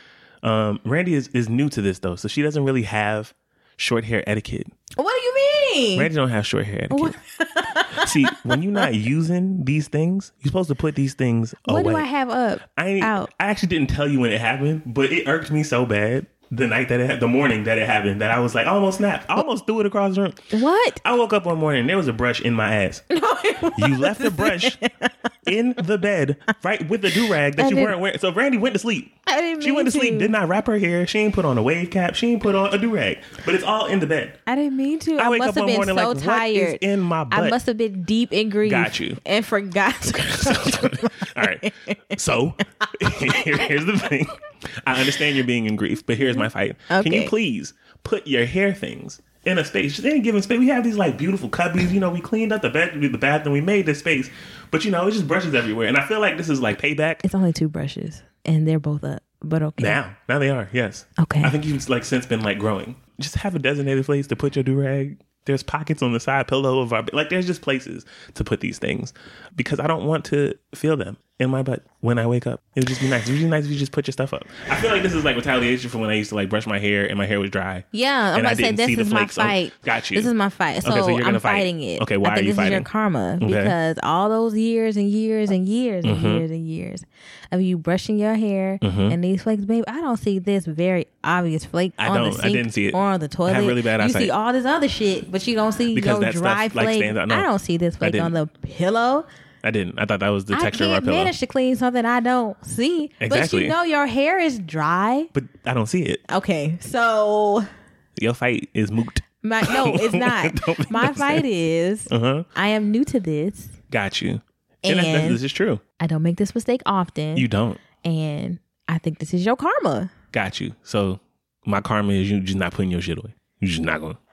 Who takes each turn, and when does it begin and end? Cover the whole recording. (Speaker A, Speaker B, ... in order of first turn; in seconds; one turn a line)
Speaker A: 0.4-4.7
Speaker B: 5.0-6.1
Speaker A: 6.0-7.2
Speaker B: 6.9-8.9
Speaker A: 7.9-12.1
Speaker B: 11.7-13.3
Speaker A: 12.8-20.5
Speaker B: 20.5-21.0
Speaker A: 21.0-23.1
Speaker B: 23.1-25.1
Speaker A: 23.7-24.8
Speaker A: 25.4-34.4
Speaker B: 27.2-27.9
Speaker B: 29.3-30.3
Speaker B: 34.5-42.0
Speaker A: 35.2-37.6
Speaker A: 38.6-39.2
Speaker A: 40.1-57.2
Speaker B: 43.0-43.7
Speaker B: 46.2-47.3
Speaker B: 57.2-60.0
Speaker A: 59.8-80.3
Speaker B: 61.2-61.6
Speaker B: 77.9-99.3
Speaker A: 80.8-82.9
Speaker A: 83.4-83.8
Speaker A: 86.0-86.5
Speaker A: 88.8-89.2
Speaker A: 92.0-94.3
Speaker A: 95.9-97.5
Speaker A: 98.0-98.3
Speaker A: 99.6-101.3
Speaker B: 100.5-105.3
Speaker A: 103.2-103.8
Speaker A: 105.3-106.2
Speaker B: 106.3-107.7
Speaker A: 108.2-111.5
Speaker B: 109.4-113.8
Speaker A: 112.1-112.5
Speaker A: 113.9-115.8
Speaker B: 114.8-115.4
Speaker B: 116.0-117.5
Speaker A: 117.3-117.8
Speaker B: 118.0-120.1
Speaker A: 120.3-124.2